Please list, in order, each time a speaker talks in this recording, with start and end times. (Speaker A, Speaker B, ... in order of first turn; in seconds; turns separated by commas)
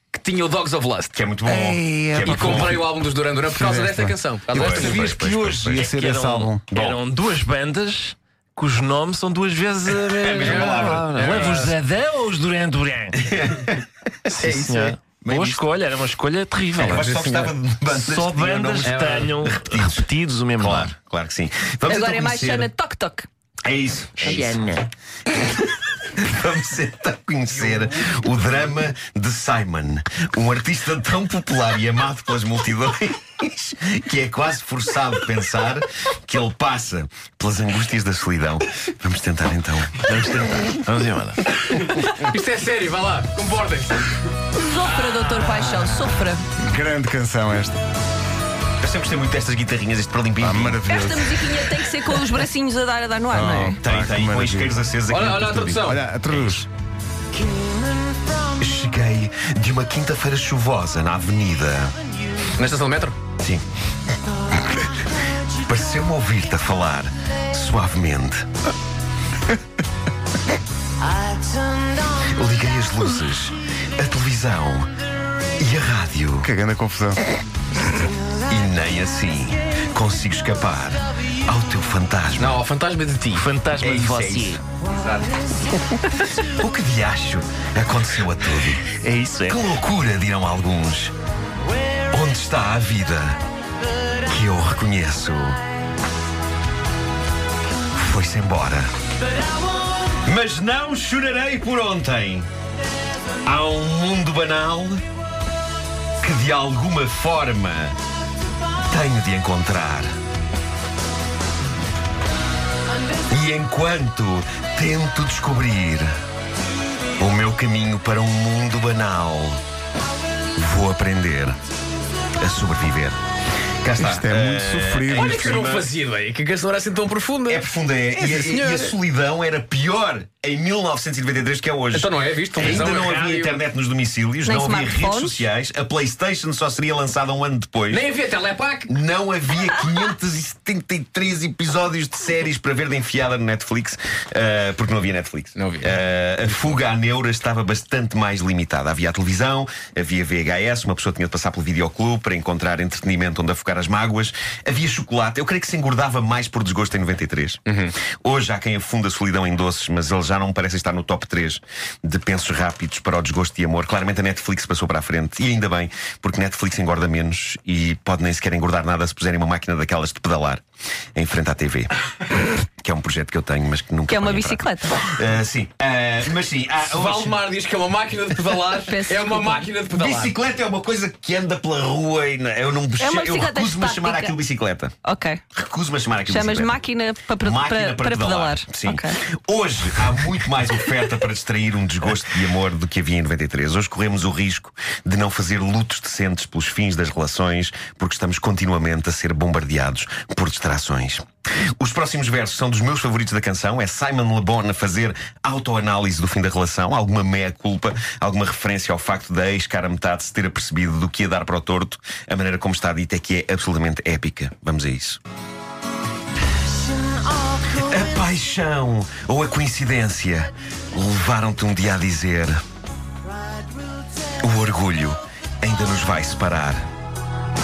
Speaker A: 0.1-1.1, Speaker B: 1.1-2.8, Speaker C: 1.5-2.8, Speaker A: 2.2-5.6, Speaker C: 3.5-6.7, Speaker B: 4.5-5.8, Speaker D: 5.8-13.2, Speaker B: 6.7-7.0, Speaker B: 9.9-11.4, Speaker A: 10.3-11.8, Speaker B: 13.1-15.7, Speaker D: 14.3-20.9, Speaker B: 16.8-22.7, Speaker A: 18.8-19.3, Speaker E: 21.9-23.3, Speaker B: 23.6-24.6, Speaker D: 24.2-24.9, Speaker B: 26.0-40.6, Speaker D: 40.0-41.8, Speaker A: 41.9-44.2, Speaker E: 44.5-46.4, Speaker C: 46.6-47.8, Speaker B: 48.8-51.1, Speaker C: 50.4-51.4, Speaker E: 50.9-53.8, Speaker C: 53.3-54.8, Speaker B: 53.8-55.9, Speaker A: 55.1-56.0, Speaker C: 55.7-56.7, Speaker B: 58.6-61.9, Speaker A: 62.6-63.2, Speaker B: 65.6-68.5, Speaker B: 72.2-74.9, Speaker B: 75.6-76.5, Speaker C: 76.4-77.2, Speaker B: 78.5-82.6, Speaker A: 82.4-83.5, Speaker D: 83.3-84.6, Speaker B: 83.8-85.4, Speaker B: 86.1-88.9, Speaker D: 88.9-89.6, Speaker B: 89.5-91.1, Speaker B: 92.1-93.4, Speaker B: 94.2-95.6, Speaker B: 97.9-98.9, Speaker B: 100.2-102.5, Speaker B: 103.5-105.0, Speaker B: 106.2-107.9, Speaker B: 108.9-110.1, Speaker B: 113.3-116.1, Speaker B: 117.2-119.6, Speaker B: 120.5-121.6, Speaker B: 122.4-123.2, Speaker B: 123.8-125.9, Speaker C: 124.0-125.5, Speaker A: 125.1-129.0, Speaker B: 127.5-138.1, Speaker A: 131.9-133.6, Speaker E: 134.4-135.5, Speaker A: 137.9-138.9, Speaker B: 138.9-157.6, Speaker A: 145.6-145.9, Speaker A: 157.7-157.9, Speaker B: 158.2-170.6, Speaker B: 171.2-171.9, Speaker B: 172.8-177.4, Speaker E: 174.1-175.1, Speaker A: 176.8-180.3, Speaker E: 178.8-179.7, Speaker B: 179.9-185.0, Speaker E: 183.0-184.3, Speaker E: 185.0-185.4, Speaker B: 185.5-186.8, Speaker E: 186.3-189.2, Speaker B: 187.4-201.2, Speaker B: 201.8-215.2, Speaker B: 217.7-222.6, Speaker B: 224.4-226.8